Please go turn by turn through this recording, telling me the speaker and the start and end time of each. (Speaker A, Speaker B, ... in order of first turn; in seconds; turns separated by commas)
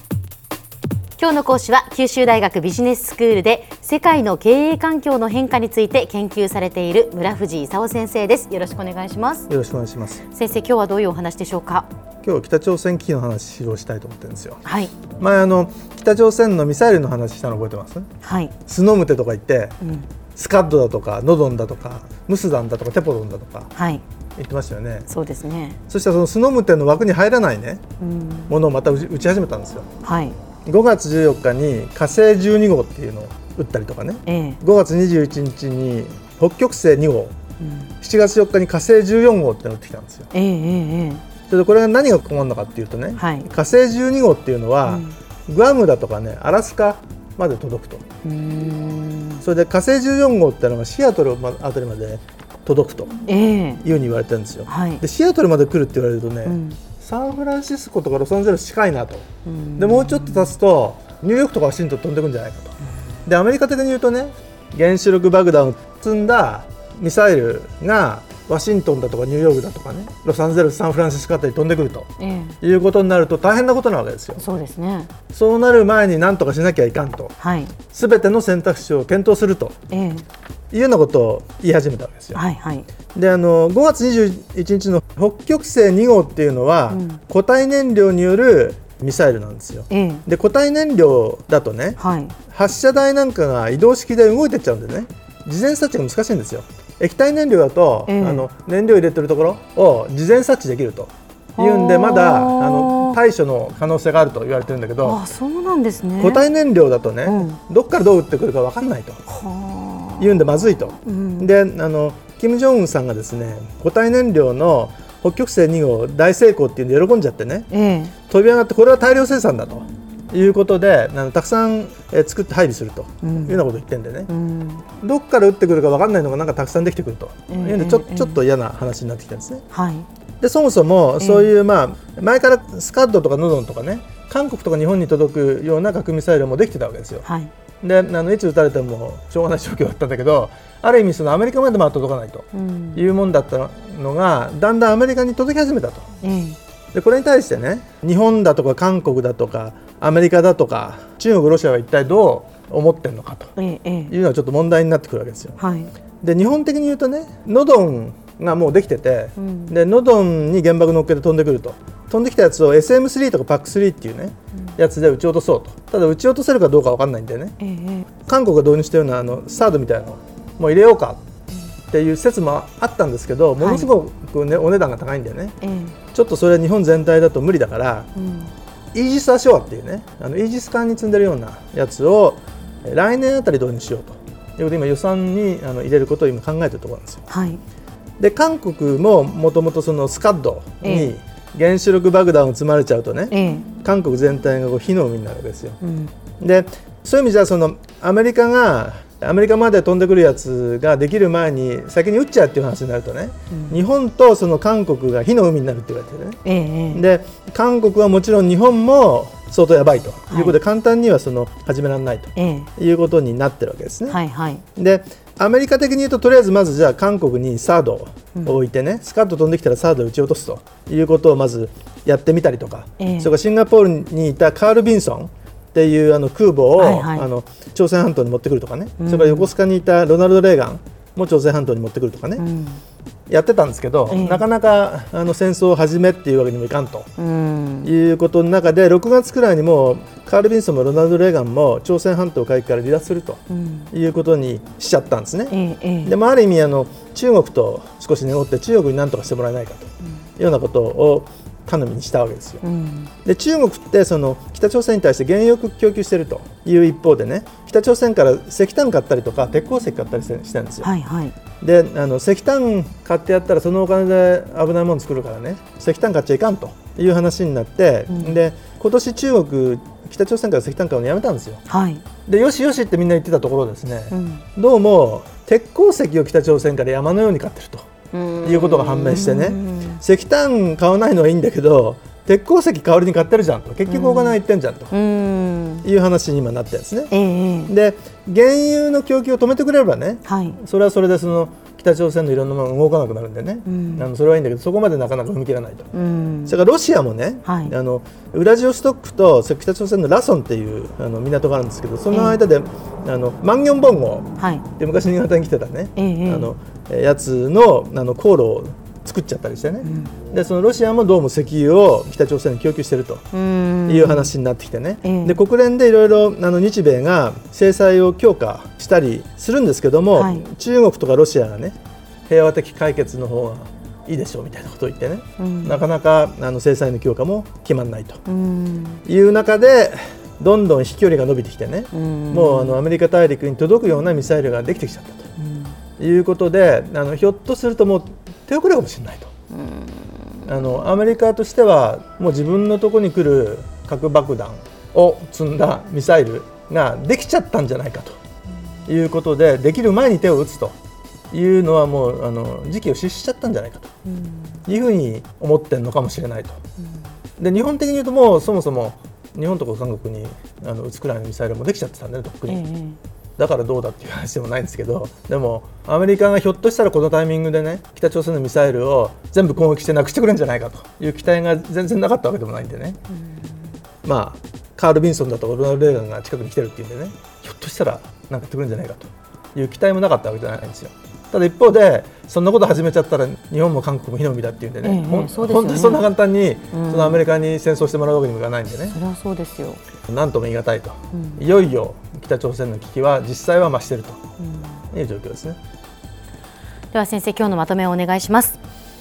Speaker A: 1.2-9.5, Speaker B: 9.5-10.3, Speaker A: 10.2-11.9, Speaker B: 12.2-18.1, Speaker A: 14.7-15.0, Speaker A: 18.2-18.6, Speaker B: 18.7-19.8, Speaker A: 19.8-20.1, Speaker B: 20.4-23.7, Speaker A: 23.8-24.0, Speaker B: 24.4-25.1, Speaker A: 25.1-25.8, Speaker B: 25.9-27.8, Speaker A: 28.0-28.5, Speaker B: 28.5-29.9, Speaker A: 30.0-30.4, Speaker B: 30.6-37.4, Speaker A: 34.3-34.6, Speaker A: 37.6-37.9, Speaker B: 38.0-40.3, Speaker A: 40.3-41.3, Speaker B: 41.5-48.1, Speaker A: 43.2-43.5, Speaker A: 44.9-45.1, Speaker A: 48.2-49.4, Speaker B: 49.4-53.1, Speaker A: 53.3-53.8, Speaker B: 53.8-59.3, Speaker A: 54.7-55.0, Speaker A: 56.5-56.8, Speaker A: 59.5-60.5, Speaker B: 59.8-62.7, Speaker B: 63.3-72.1, Speaker A: 72.2-72.6, Speaker B: 72.6-74.4, Speaker A: 74.4-75.2, Speaker B: 75.3-77.3, Speaker A: 77.4-77.8, Speaker B: 77.9-79.8, Speaker A: 79.9-80.2, Speaker B: 80.7-82.4, Speaker A: 82.3-82.9, Speaker B: 83.1-105.2, Speaker A: 86.9-87.2, Speaker A: 89.9-90.2, Speaker A: 92.0-92.4, Speaker A: 98.1-98.5, Speaker A: 101.6-103.2, Speaker A: 105.0-106.5, Speaker B: 106.2-109.2, Speaker A: 107.3-107.6, Speaker A: 109.3-111.5, Speaker B: 110.2-117.7, Speaker A: 117.7-118.2, Speaker B: 118.2-124.3, Speaker A: 123.2-123.6, Speaker A: 124.3-124.8, Speaker B: 124.9-129.6, Speaker A: 127.5-128.4, Speaker A: 129.7-130.1, Speaker B: 130.4-137.3, Speaker A: 131.2-131.6, Speaker A: 137.2-137.5, Speaker B: 137.8-146.1, Speaker A: 142.5-143.1, Speaker A: 146.2-146.6, Speaker B: 146.9-153.5, Speaker A: 153.6-154.2, Speaker B: 154.1-155.6, Speaker A: 155.6-155.9, Speaker B: 156.2-167.6, Speaker A: 159.4-159.8, Speaker A: 167.6-168.1, Speaker B: 168.2-171.2, Speaker B: 171.9-175.6, Speaker A: 173.6-173.9, Speaker A: 175.6-176.0, Speaker B: 176.1-178.1, Speaker A: 178.2-178.5, Speaker B: 178.9-187.2, Speaker A: 187.3-187.6, Speaker B: 188.2-195.8, Speaker A: 190.8-191.2, Speaker A: 193.3-193.7, Speaker A: 195.8-196.1, Speaker B: 196.4-206.4, Speaker A: 203.5-203.8, Speaker A: 206.4-207.1, Speaker B: 206.9-214.2, Speaker A: 210.3-210.6, Speaker A: 212.4-212.7, Speaker A: 214.1-214.6, Speaker B: 214.8-232.4, Speaker A: 223.0-223.3, Speaker A: 226.7-227.3, Speaker A: 229.0-229.5, Speaker A: 232.4-232.8, Speaker B: 233.3-237.1, Speaker A: 234.1-234.4, Speaker A: 237.2-237.9, Speaker B: 237.8-243.4, Speaker A: 243.5-243.9, Speaker B: 243.9-252.6, Speaker A: 245.5-246.2, Speaker A: 252.6-253.1, Speaker B: 253.2-260.9, Speaker A: 260.8-261.4, Speaker B: 261.6-271.6, Speaker A: 268.1-268.4, Speaker A: 271.7-272.1, Speaker B: 272.3-277.9, Speaker A: 274.1-274.5, Speaker A: 278.1-280.0, Speaker B: 278.4-284.9, Speaker A: 283.9-284.4, Speaker A: 284.9-285.9, Speaker B: 285.8-287.1, Speaker A: 287.1-287.7, Speaker B: 287.7-295.9, Speaker A: 290.2-290.6, Speaker A: 293.7-294.1, Speaker A: 295.9-296.6, Speaker B: 296.5-313.2, Speaker A: 297.4-297.7, Speaker A: 302.1-302.4, Speaker A: 304.4-304.7, Speaker A: 306.0-306.5, Speaker A: 309.8-310.1, Speaker A: 313.3-314.3, Speaker B: 313.9-321.8, Speaker A: 315.0-315.4, Speaker A: 320.1-320.5, Speaker B: 322.3-328.2, Speaker A: 325.4-325.8, Speaker A: 328.3-329.0, Speaker B: 329.1-335.3, Speaker A: 331.9-332.8, Speaker A: 335.4-335.7, Speaker B: 336.0-339.3, Speaker A: 339.6-340.4, Speaker B: 340.5-348.2, Speaker B: 348.9-350.8, Speaker B: 351.3-353.9, Speaker A: 354.2-354.5, Speaker B: 354.7-356.6, Speaker B: 357.4-362.6, Speaker A: 362.5-363.0, Speaker B: 363.4-373.0, Speaker B: 374.0-389.0, Speaker A: 384.8-386.1, Speaker A: 386.7-387.2, Speaker A: 388.9-389.8, Speaker B: 390.1-394.2, Speaker A: 391.1-391.4, Speaker B: 394.9-395.6, Speaker A: 396.9-398.6